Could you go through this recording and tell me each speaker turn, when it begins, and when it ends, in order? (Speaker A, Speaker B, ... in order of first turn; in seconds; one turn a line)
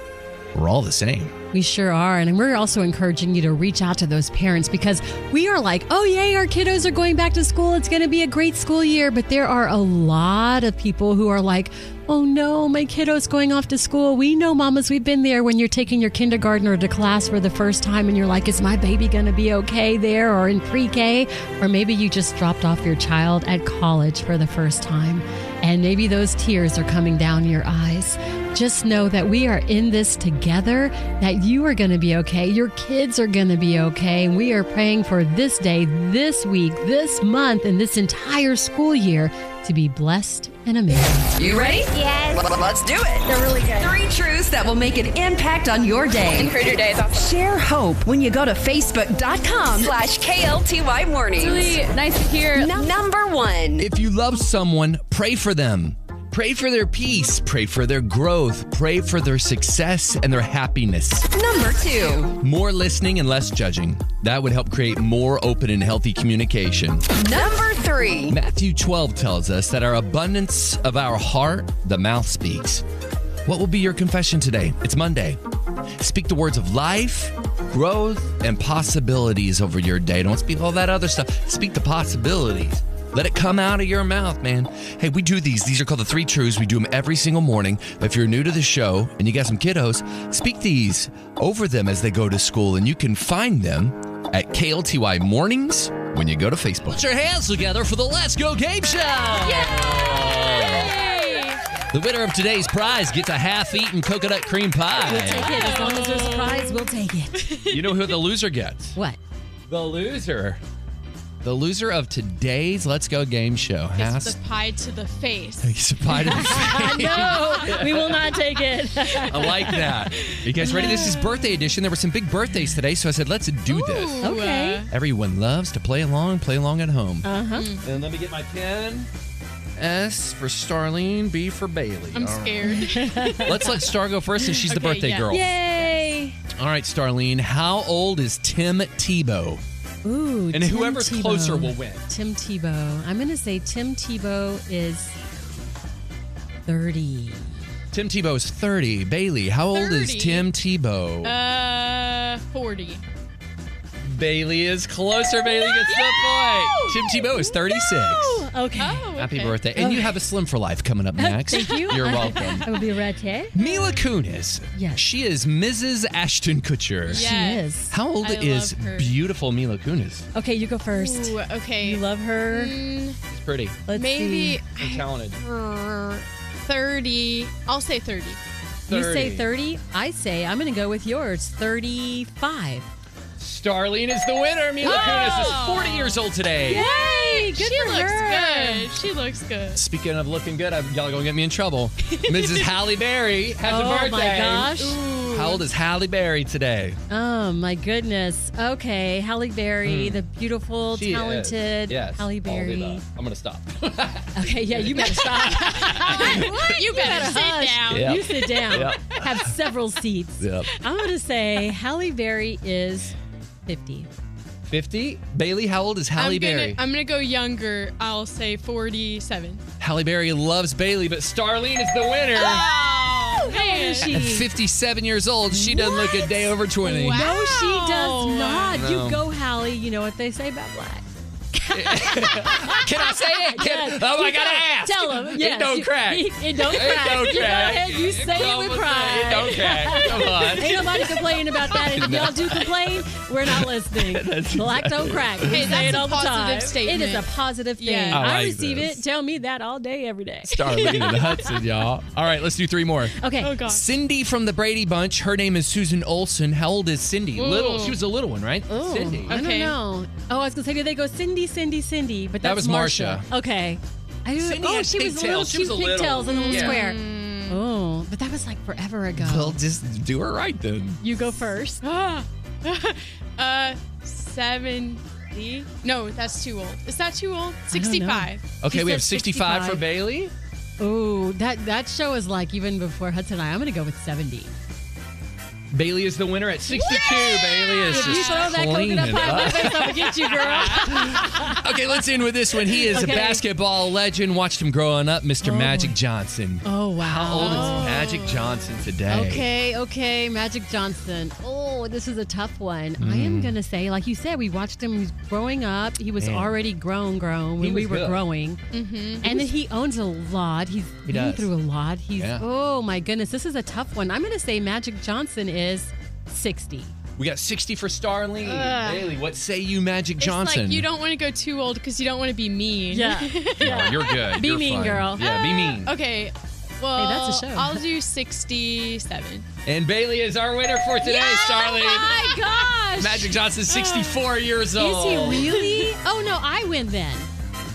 Speaker A: 0.5-1.3
Speaker B: 1.5-41.3
Speaker C: 41.4-53.8
Speaker A: 53.8-61.3
Speaker C: 61.3-62.4
Speaker A: 62.4-67.4
Speaker C: 67.2-68.3
Speaker A: 68.3-72.8
Speaker A: 73.5-75.4
Speaker A: 76.0-101.0
Speaker D: 99.3-101.6
Speaker A: 101.9-105.7
Speaker B: 105.0-107.4
Speaker D: 105.1-108.1
Speaker A: 107.7-109.0
Speaker A: 109.7-110.6
Speaker A: 111.4-114.4
Speaker D: 113.9-115.8
Speaker A: 115.6-118.2
Speaker B: 116.1-120.0
Speaker D: 119.3-121.3
Speaker A: 119.3-124.3
Speaker B: 120.7-121.0
Speaker D: 123.7-124.9
Speaker B: 124.2-124.8
Speaker A: 124.9-127.3
Speaker B: 127.2-127.7
Speaker D: 127.5-127.8
Speaker A: 127.8-129.1
Speaker A: 129.8-132.9
Speaker D: 132.1-133.7
Speaker B: 132.8-133.7
Speaker A: 133.4-135.5
Speaker D: 134.5-136.1
Speaker B: 135.3-136.3
Speaker A: 136.6-139.6
Speaker B: 140.0-145.1
Speaker A: 140.5-142.0
Speaker B: 146.7-147.6
Speaker A: 147.9-151.3
Speaker D: 149.7-150.5
Speaker D: 151.2-153.0
Speaker A: 154.0-158.4
Speaker D: 155.4-157.5
Speaker B: 157.7-159.1
Speaker D: 158.8-159.9
Speaker A: 159.2-162.7
Speaker B: 159.8-160.1
Speaker B: 161.2-163.5
Speaker D: 161.5-162.6
Speaker A: 163.5-167.3
Speaker D: 163.6-164.0
Speaker B: 164.7-165.0
Speaker B: 167.1-167.9
Speaker D: 167.1-167.7
Speaker A: 167.9-170.3
Speaker D: 168.2-169.1
Speaker B: 170.3-172.7
Speaker D: 170.9-173.2
Speaker A: 173.3-173.8
Speaker B: 173.9-174.6
Speaker D: 173.9-178.4
Speaker A: 174.8-175.4
Speaker B: 178.9-182.9
Speaker A: 178.9-179.5
Speaker A: 183.4-186.8
Speaker D: 184.8-189.8
Speaker B: 186.7-188.9
Speaker A: 189.7-194.7
Speaker D: 192.2-192.7
Speaker B: 193.6-195.0
Speaker D: 194.7-195.7
Speaker A: 195.3-197.0
Speaker B: 197.1-203.0
Speaker A: 199.8-200.2
Speaker A: 200.9-207.0
Speaker B: 204.3-214.1
Speaker D: 205.1-209.2
Speaker A: 207.9-209.5
Speaker A: 210.4-210.7
Speaker A: 214.7-216.8
Speaker D: 216.2-219.6
Speaker A: 219.8-222.7
Speaker D: 222.3-224.2
Speaker B: 223.4-224.4
Speaker A: 224.0-227.3
Speaker D: 225.6-228.8
Speaker B: 227.0-250.5
Speaker A: 228.7-229.2
Speaker A: 231.7-246.0
Speaker D: 237.2-237.5
Speaker D: 239.3-241.2
Speaker D: 245.5-248.2
Speaker A: 248.1-249.0
Speaker D: 250.5-251.7
Speaker A: 250.5-259.4
Speaker B: 253.2-253.5
Speaker D: 253.4-253.9
Speaker D: 257.3-258.0
Speaker B: 258.7-269.6
Speaker D: 259.3-259.8
Speaker A: 262.4-263.3
Speaker A: 264.4-266.8
Speaker D: 266.2-267.6
Speaker A: 269.1-271.0
Speaker B: 271.0-271.8
Speaker D: 271.8-278.5
Speaker B: 277.7-279.8
Speaker A: 278.6-280.3
Speaker B: 280.8-284.5
Speaker A: 285.7-299.5
Speaker B: 286.7-291.7
Speaker D: 287.6-290.7
Speaker B: 292.7-293.4
Speaker B: 295.4-296.0
Speaker B: 296.6-297.9
Speaker D: 297.3-298.6
Speaker B: 299.1-308.6
Speaker A: 303.0-303.6
Speaker A: 306.2-306.6
Speaker A: 307.6-308.2
Speaker D: 308.7-309.3
Speaker A: 309.2-309.5
Speaker B: 309.2-316.9
Speaker A: 311.1-311.5
Speaker A: 312.2-312.4
Speaker A: 317.2-320.9
Speaker B: 318.4-319.1
Speaker D: 320.2-324.4
Speaker B: 322.9-325.2
Speaker A: 323.6-325.9
Speaker D: 325.1-329.4
Speaker B: 326.9-327.8
Speaker A: 329.6-332.3
Speaker B: 331.0-333.4
Speaker D: 331.1-332.4
Speaker A: 333.0-335.5
Speaker D: 333.7-334.3
Speaker B: 334.7-337.3
Speaker D: 335.3-335.9